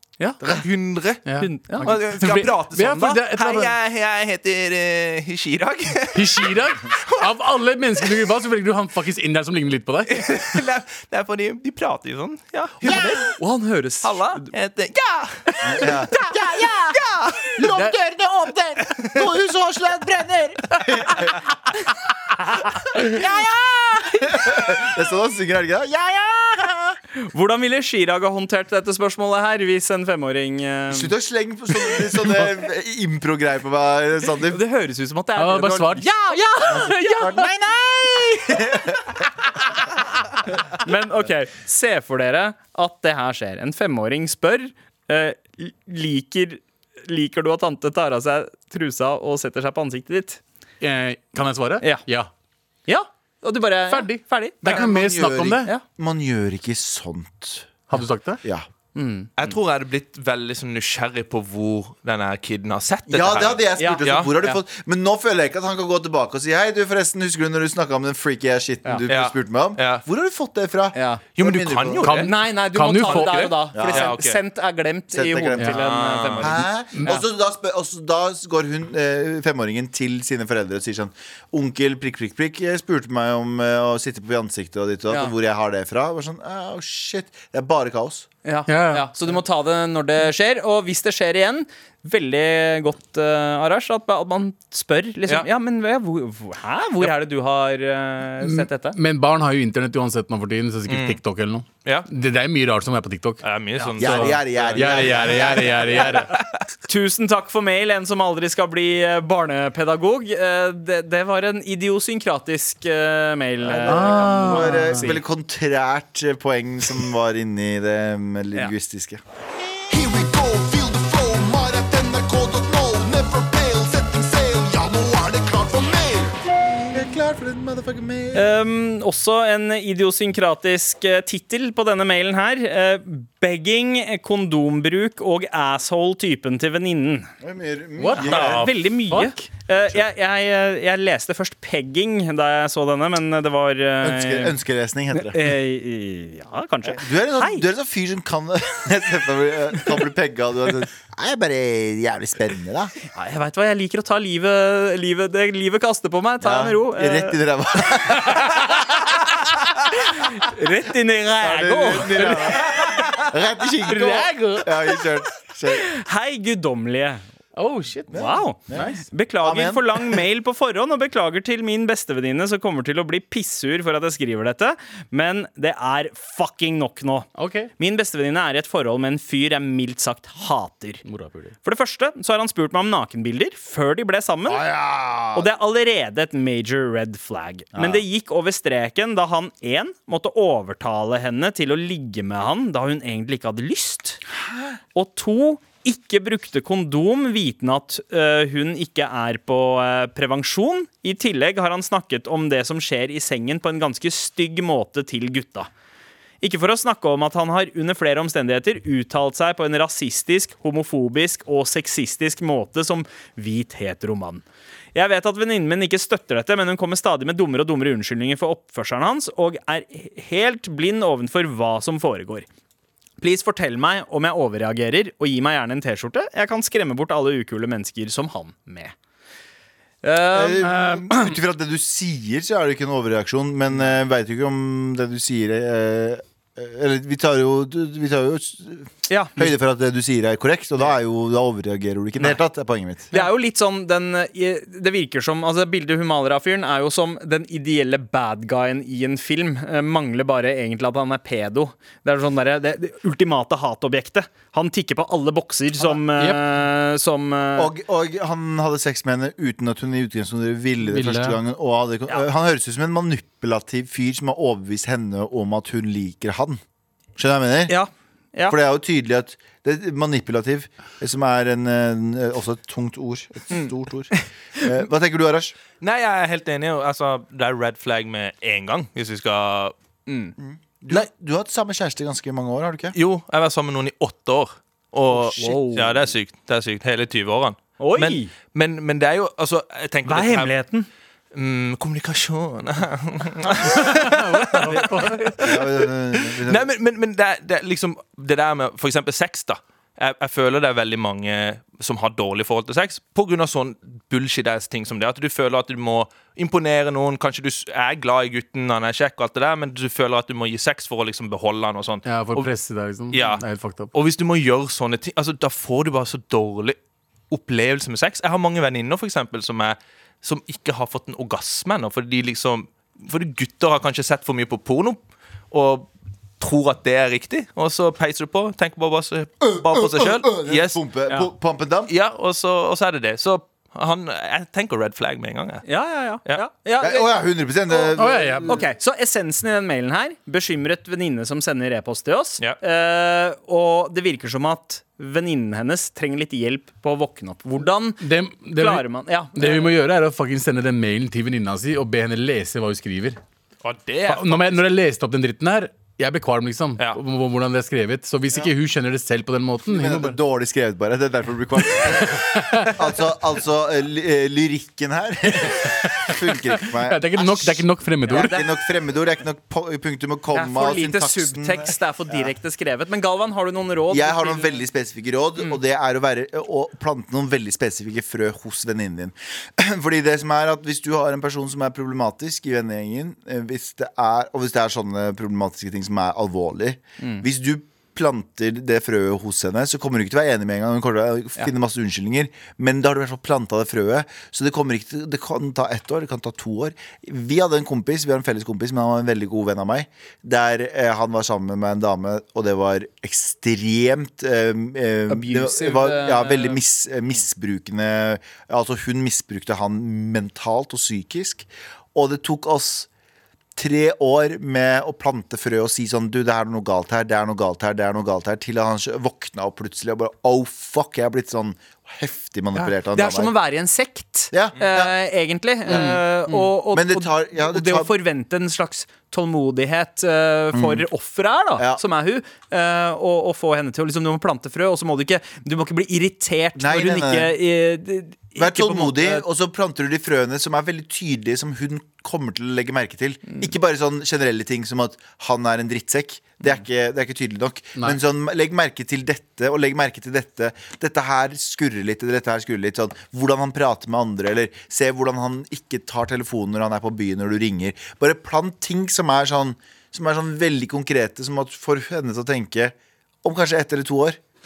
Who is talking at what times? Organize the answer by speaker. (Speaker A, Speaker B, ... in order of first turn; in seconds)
Speaker A: 0.4-1.3, 1.8-7.3, 10.1-13.4, 14.0-17.6, 18.9-19.2, 59.4-64.3, 69.0-70.0, 71.3-72.3, 72.9-74.4, 75.7-76.5, 100.9-101.2, 103.4-106.6, 162.7-163.3, 275.8-279.7, 282.9-290.5, 291.3-295.6, 296.3-312.5, 313.1-316.8, 317.3-325.9, 326.4-330.8, 331.9-335.6, 353.6-354.7
Speaker B: 1.2-3.7, 6.1-10.6, 35.4-36.1, 50.8-52.3, 53.9-55.7, 57.9-58.4, 72.0-73.7, 88.7-89.1, 98.4-103.4, 104.0-106.3, 113.8-115.1, 138.0-139.3, 162.1-162.6, 163.9-164.7, 167.6-169.0, 177.3-177.7, 181.0-181.5, 256.1-256.4, 260.8-261.4, 293.5-295.3, 312.0-313.9, 337.9-338.5, 348.0-353.2, 354.1-360.2, 361.6-363.1, 365.4-368.3, 425.7-426.0
Speaker C: 1.4-1.9, 12.8-14.5, 15.8-16.8, 27.2-31.1, 34.4-37.5, 40.7-50.4, 52.9-54.8, 58.9-59.3, 63.8-64.6, 70.9-71.2, 72.2-77.2, 88.4-99.0, 106.9-115.2, 128.3-137.3, 138.1-144.6, 145.1-147.7, 153.1-157.4, 160.0-162.4, 163.9-164.2, 165.7-167.2, 168.1-181.0, 181.6-184.7, 185.3-194.2, 194.9-205.7, 206.4-214.4, 214.9-222.4, 223.2-228.9, 230.0-231.3, 239.1-239.5, 243.1-257.7, 267.7-268.6, 273.5-274.2, 280.1-280.3, 285.1-285.9, 287.8-288.3, 290.0-290.9, 295.0-295.3, 335.6-337.1, 338.4-349.7, 368.1-368.5, 370.3-374.6, 405.1-406.6, 422.5-439.2
Speaker D: 15.6-16.8, 17.5-21.4, 22.9-23.5, 24.1-26.9, 30.9-34.6, 36.7-39.1, 54.6-57.7, 63.1-72.1, 73.7-74.2, 75.1-75.7, 76.4-88.3, 104.0-106.2, 113.6-119.2, 126.6-128.5, 137.4-138.7, 144.0-145.5, 146.8-152.9, 156.4-159.1, 161.4-165.9, 168.1-170.2, 184.5-185.5, 187.7-188.0, 194.4-194.8, 230.3-243.1, 257.6-266.6, 267.2-267.8, 268.5-275.6, 280.4-282.9, 295.4-296.7, 329.4-331.9, 336.8-338.6, 359.6-372.3, 373.9-412.9, 413.6-423.3, 424.3-424.9, 425.6-427.9, 430.5-430.9, 431.6-431.8, 436.5-437.3, 438.4-464.2
Speaker E: 119.9-126.4